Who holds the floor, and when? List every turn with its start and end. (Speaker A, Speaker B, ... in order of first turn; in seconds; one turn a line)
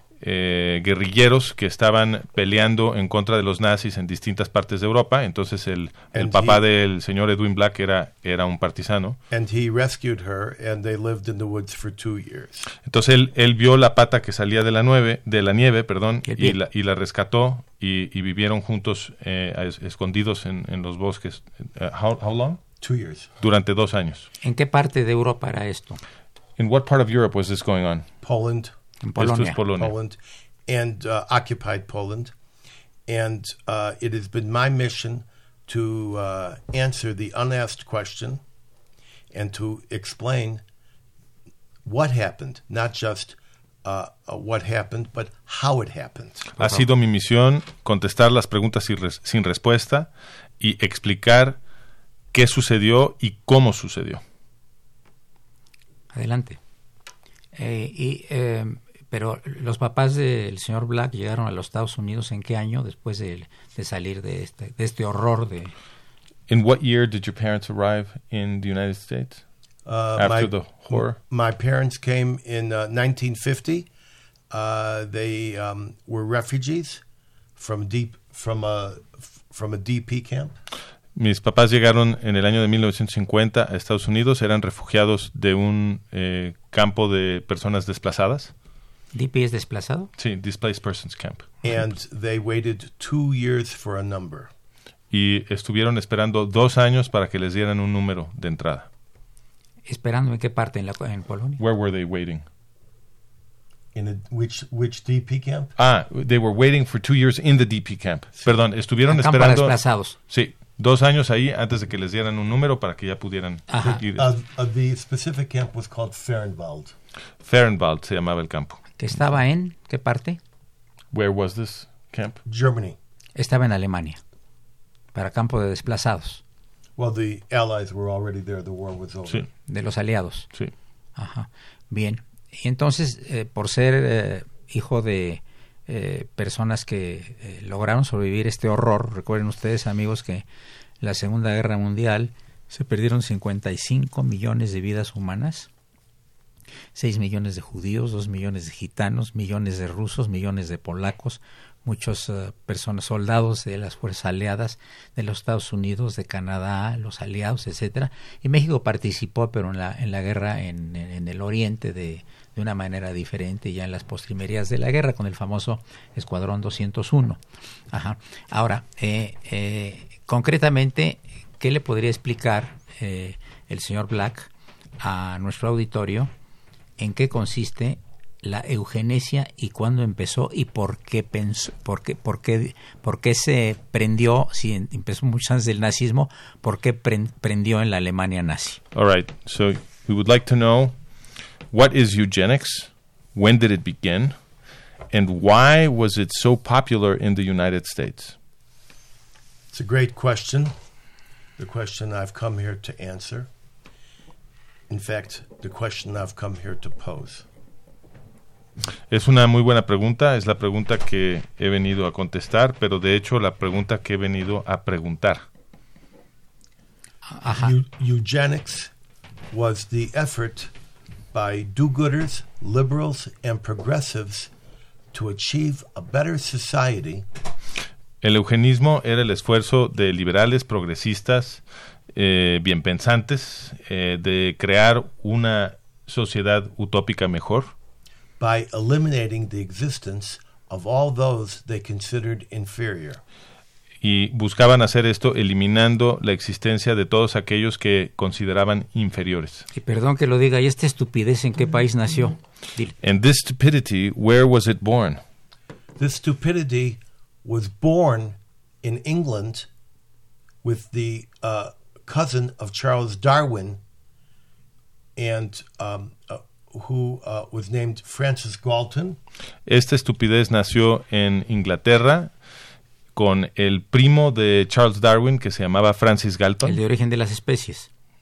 Speaker A: 0.2-9.2
Speaker B: 6.1-6.6
Speaker B: 9.3-12.7
Speaker A: 12.8-22.6
Speaker C: 16.2-16.6
Speaker B: 22.8-23.3
Speaker A: 23.4-24.3
Speaker C: 24.4-26.0
Speaker A: 26.6-28.1
Speaker B: 28.2-28.7
Speaker C: 29.0-29.6
Speaker A: 29.2-29.9
Speaker B: 29.7-32.3
Speaker B: 33.1-38.4
Speaker B: 39.3-40.6
Speaker B: 41.9-46.5
Speaker A: 46.6-51.6
Speaker A: 52.3-54.2
Speaker C: 56.1-56.6
Speaker C: 57.5-65.7
Speaker A: 66.5-69.4
Speaker B: 69.8-73.9
Speaker A: 70.2-71.2
Speaker B: 74.5-77.0
Speaker B: 77.6-80.6
Speaker A: 81.2-88.5
Speaker C: 89.1-90.1
Speaker A: 90.2-91.8
Speaker B: 91.6-94.5
Speaker A: 95.1-98.9
Speaker C: 99.9-101.6
Speaker A: 101.6-102.5
Speaker B: 103.9-105.7
Speaker A: 105.8-114.3
Speaker B: 108.4-108.7
Speaker C: 109.1-110.2
Speaker C: 113.7-114.0
Speaker B: 114.0-117.0
Speaker A: 117.4-118.8
Speaker C: 119.0-120.4
Speaker A: 121.1-122.4
Speaker B: 122.5-123.0
Speaker C: 123.4-124.2
Speaker C: 125.1-126.4
Speaker B: 127.0-129.5
Speaker C: 129.7-130.5
Speaker C: 131.2-140.4
Speaker C: 141.0-145.7
Speaker C: 146.9-167.4
Speaker C: 167.9-176.3
Speaker C: 177.0-188.8
Speaker A: 188.9-191.0
Speaker A: 191.7-194.4
Speaker A: 195.1-198.3
Speaker B: 199.7-200.8
Speaker B: 201.6-203.5
Speaker B: 204.9-207.5
Speaker A: 209.1-215.4
Speaker C: 217.3-217.8
Speaker B: 217.5-218.9
Speaker B: 219.5-220.7
Speaker B: 221.3-224.5
Speaker B: 225.1-227.3
Speaker A: 228.2-231.6
Speaker A: 232.1-237.7
Speaker B: 238.4-243.2
Speaker A: 244.0-249.7
Speaker C: 249.7-252.9
Speaker A: 253.0-255.2
Speaker B: 256.0-259.7
Speaker B: 260.6-263.8
Speaker B: 265.2-269.2
Speaker A: 269.7-272.4
Speaker A: 273.1-276.8
Speaker C: 276.6-277.9